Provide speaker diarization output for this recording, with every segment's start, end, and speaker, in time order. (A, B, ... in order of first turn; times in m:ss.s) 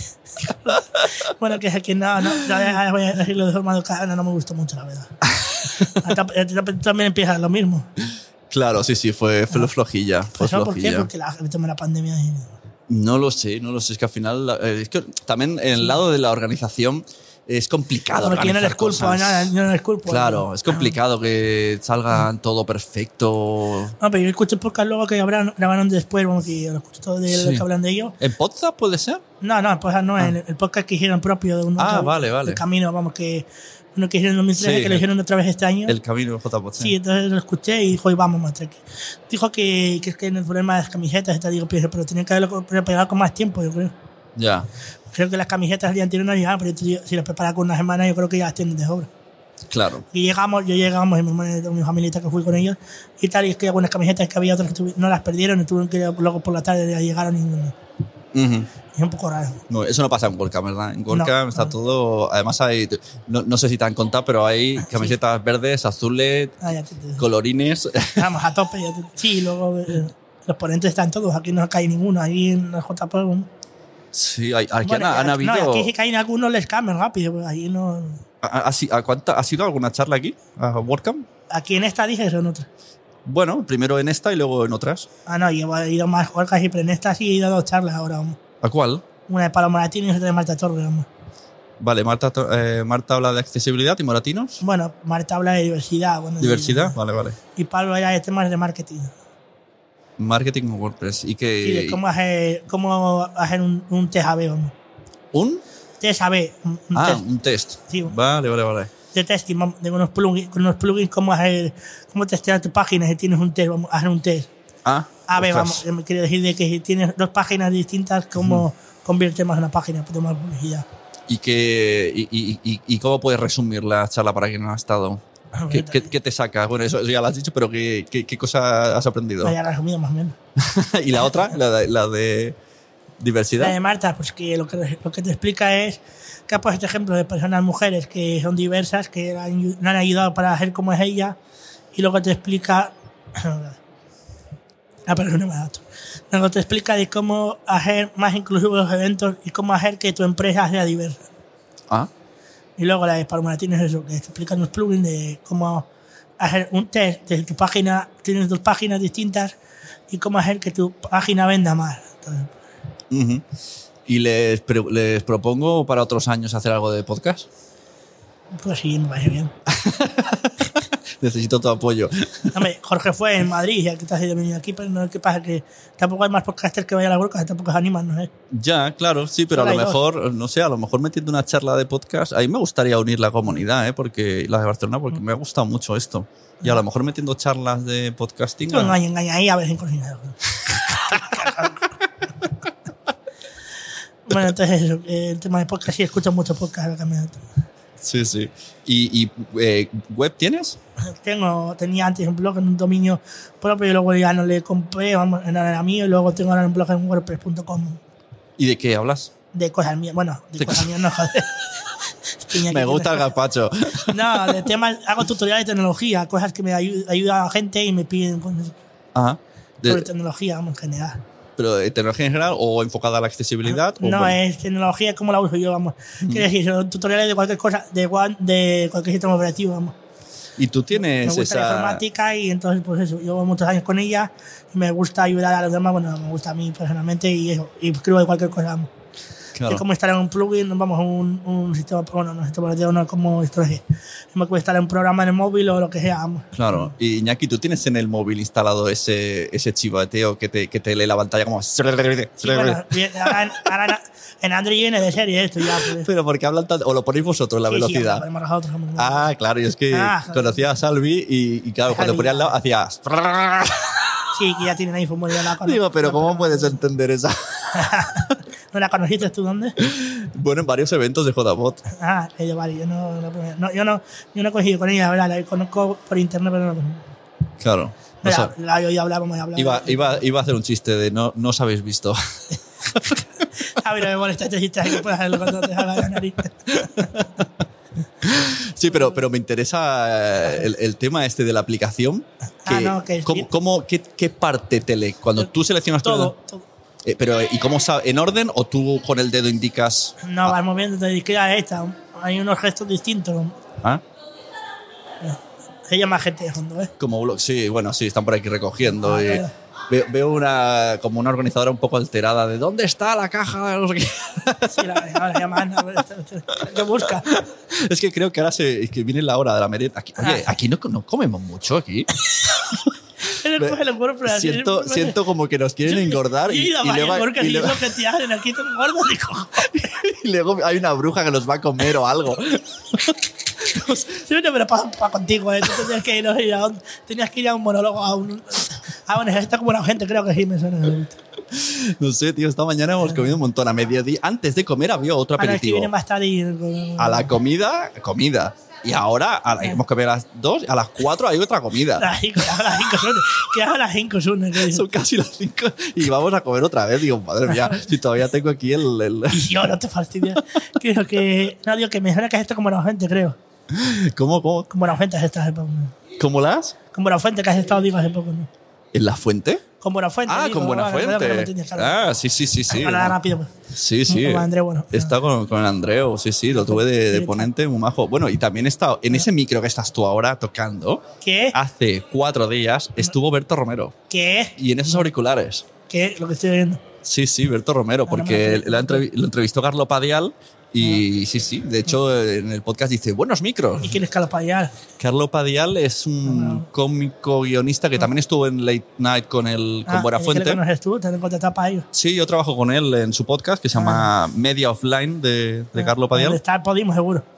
0:00.4-0:01.1 A
0:00.4-0:05.1 B
0:05.3-0:05.9 A
0:05.9-0:07.9 B
0:08.5-0:11.1 A
0:10.3-0:12.5 B
0:12.9-0:19.5 A
0:18.2-0:20.9 B
0:20.0-0:23.9 A
0:24.0-0:28.2 B
0:27.3-0:27.6 A
0:28.2-0:29.2 A
0:29.4-0:36.0 B
0:31.8-0:32.6 A
0:34.6-0:35.0 A
0:35.9-0:36.9 A
0:36.8-0:43.9 B
0:44.4-0:44.7 A
0:45.1-0:49.1 B
0:49.7-0:50.0 A
0:50.1-0:57.7 B
0:58.3-0:58.7 A
0:58.9-0:59.6 B
0:59.7-1:06.6 A
1:01.1-1:01.7 B
1:06.6-1:07.2 B
1:07.2-1:08.3 A
1:08.2-1:13.5 B
1:14.1-1:15.9 A
1:14.8-1:18.2 B
1:18.4-1:21.2 A
1:21.5-1:22.7 B
1:23.2-1:25.1 A
1:25.2-1:28.4 B
1:28.6-1:29.0 A
1:29.3-1:31.1 B
1:31.8-1:34.6 A
1:34.6-1:37.0 B
1:36.4-1:37.4 A
1:37.5-1:39.1 B
1:40.2-1:42.0 A
1:41.6-1:44.7 B
1:45.3-1:45.6 A
1:46.0-1:47.2 B
1:46.9-1:48.9 A
1:49.1-1:54.5 B
1:54.8-1:55.8 A
1:55.3-2:00.8 B
2:01.3-2:09.6 A
2:05.5-2:06.1 B
2:09.4-2:10.3 B
2:10.6-2:12.6 A
2:13.2-2:13.8 A
2:13.6-2:21.4 B
2:21.9-2:23.8 B
2:25.1-2:31.2 B
2:32.8-2:35.9 B
2:36.4-2:39.5 B
2:40.1-2:42.6 B
2:43.1-2:43.4 A
2:44.0-2:47.5 A
2:48.6-2:49.5 B
2:49.6-2:52.6 A
2:52.5-2:58.3 B
2:58.5-3:09.0 A
2:59.5-3:00.0 B
3:08.7-3:11.9 B
3:10.7-3:11.7 A
3:14.2-3:17.4 B
3:18.0-3:20.8 A
3:21.1-3:28.0 B
3:28.6-3:29.3 A
3:29.5-3:33.3 B
3:30.6-3:31.0 A
3:32.6-3:34.6 A
3:34.1-3:38.8 B
3:39.1-3:40.1 A
3:39.8-3:41.2 B
3:41.6-3:44.4 A
3:44.0-3:49.9 B
3:46.2-3:46.5 A
3:50.6-3:52.0 A
3:51.2-3:58.9 B
3:59.5-3:59.8 A
3:59.7-4:06.8 B
4:06.5-4:13.5 A
4:12.4-4:16.1 B
4:15.6-4:18.2 A
4:17.7-4:19.3 B
4:19.0-4:24.3 A
4:19.9-4:20.6 B
4:21.9-4:22.5 B
4:24.3-4:26.8 B
4:25.4-4:28.3 A
4:27.7-4:29.8 B
4:29.8-4:31.8 A
4:31.9-4:37.1 B
4:37.6-4:38.5 A
4:38.2-4:40.2 B
4:39.6-4:42.2 A
4:42.8-4:43.4 A
4:43.0-4:47.3 B
4:45.4-4:46.0 A
4:46.7-4:47.4 A
4:48.2-4:56.3 A
4:52.6-4:53.5 B
4:56.0-4:56.6 B
4:57.0-5:00.5 A
5:00.2-5:03.6 B
5:05.2-5:06.9 B
5:07.0-5:15.2 A
5:08.9-5:09.5 B
5:14.7-5:17.3 B
5:17.0-5:22.1 A
5:20.2-5:20.5 B
5:23.2-5:25.2 B
5:23.6-5:27.9 A
5:25.8-5:29.9 B
5:29.6-5:34.2 A
5:33.9-5:41.2 B
5:41.5-5:45.9 A
5:45.4-5:47.3 B
5:47.0-5:52.1 A
5:52.0-5:54.9 B
5:54.6-5:59.5 A
5:57.5-5:57.8 B
5:59.3-6:03.4 B
6:03.7-6:04.7 A
6:04.7-6:05.9 B
6:06.2-6:06.8 A
6:06.9-6:08.5 B
6:08.9-6:09.6 A
6:09.8-6:12.1 B
6:10.3-6:13.2 A
6:12.7-6:13.5 B
6:13.7-6:23.9 A
6:14.1-6:15.1 B
6:16.5-6:17.5 B
6:21.2-6:21.6 B
6:24.1-6:25.0 B
6:24.6-6:25.7 A
6:25.9-6:26.8 B
6:27.0-6:34.0 A
6:28.1-6:29.0 B
6:33.8-6:34.7 B
6:35.0-6:40.6 A
6:36.2-6:36.6 B
6:39.9-6:41.9 B
6:41.9-6:46.4 A
6:43.8-6:44.1 B
6:45.8-6:47.2 B